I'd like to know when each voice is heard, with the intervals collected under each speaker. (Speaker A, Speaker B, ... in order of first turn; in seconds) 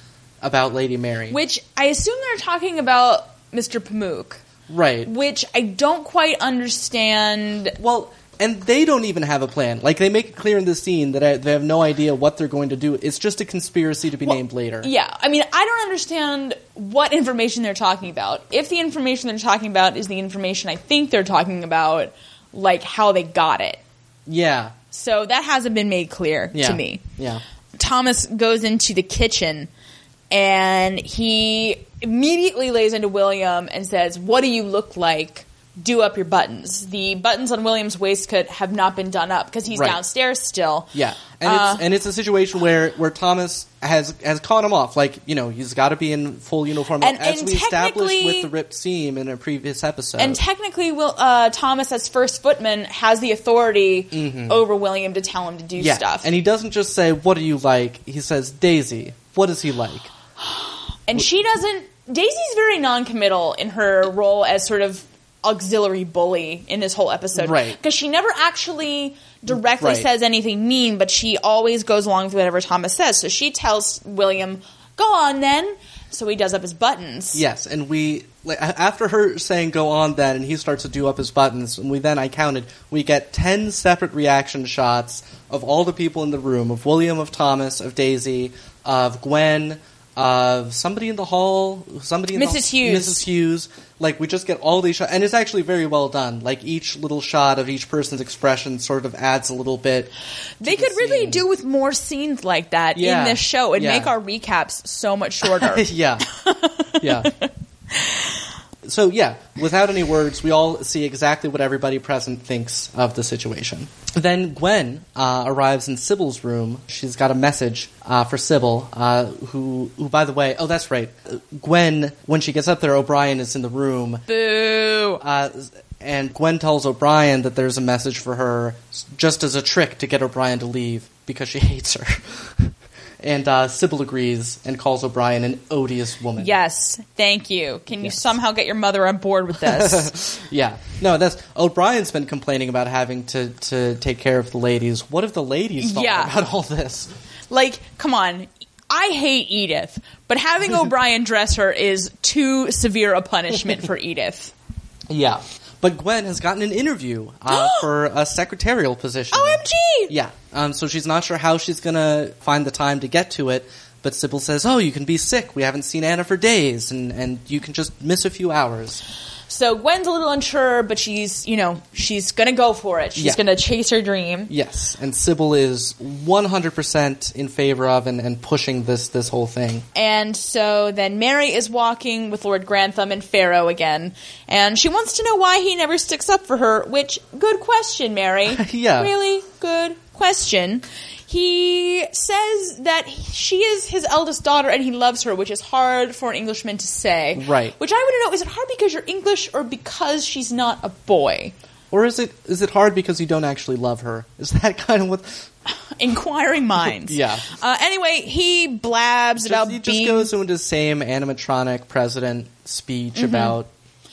Speaker A: 0.4-1.4, 4.7-5.1, 7.8-14.9, 24.3-24.7, 26.5-27.4, 39.7-40.0, 40.9-50.4, 54.1-54.6, 55.8-60.1, 67.3-67.8, 69.5-70.1, 77.3-100.1, 100.6-101.4, 102.9-104.1, 105.4-106.3, 107.0-107.3, 108.8-124.2, 125.2-136.5, 138.0-138.2, 139.6-147.1, 155.1-169.0, 174.5-179.8, 188.5-189.1, 197.3-197.7, 201.9-205.5, 206.8-207.5, 209.4-213.7
Speaker B: 1.3-4.4, 5.0-7.8, 14.2-23.8, 24.9-27.0, 27.8-29.7, 30.3-40.9, 41.4-41.8, 47.0-48.5, 50.2-56.3, 61.1-77.4, 92.3-93.2, 100.6-107.4, 124.3-125.2, 136.4-140.1, 145.8-146.3, 147.5-154.5, 157.5-157.9, 159.3-160.1, 169.5-174.5, 179.9-201.5, 206.0-210.3, 213.1-213.6